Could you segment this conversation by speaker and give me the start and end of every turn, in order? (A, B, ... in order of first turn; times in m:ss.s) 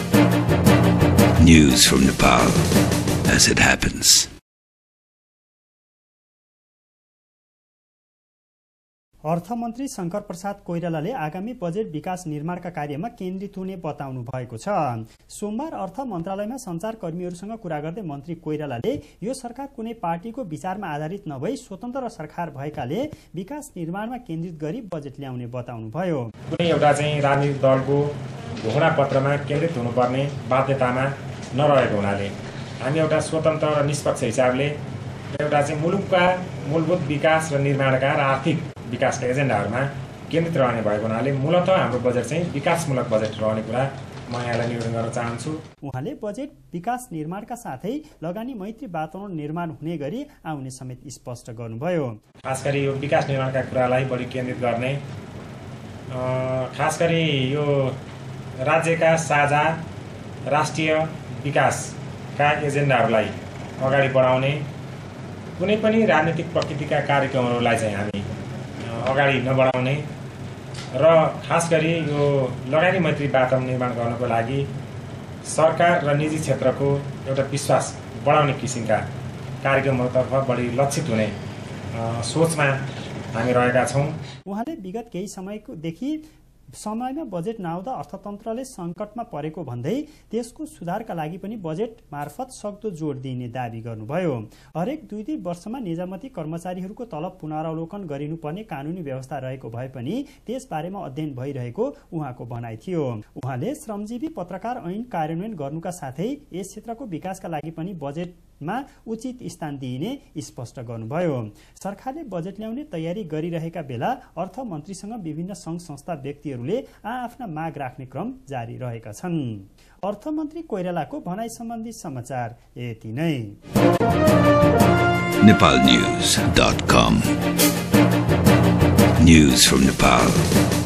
0:01.4-0:02.6 A
0:03.3-0:04.3 A
0:09.3-0:26.3 B
0:26.5-0:34.8 C
0:35.3-0:45.6 C
0:45.8-0:52.2 B
0:52.5-0:55.0 C
0:56.1-0:58.0 C
0:58.7-0:59.8 C
1:00.5-1:04.7 C
1:05.6-1:08.2 C
1:08.9-1:10.0 C
1:11.0-1:14.7 C
1:15.5-1:19.0 C
1:19.6-1:21.4 C
1:21.9-1:24.2 C
1:24.5-1:26.2 B
1:26.8-2:03.6 B
2:05.4-2:07.3 A
2:09.2-2:10.5 A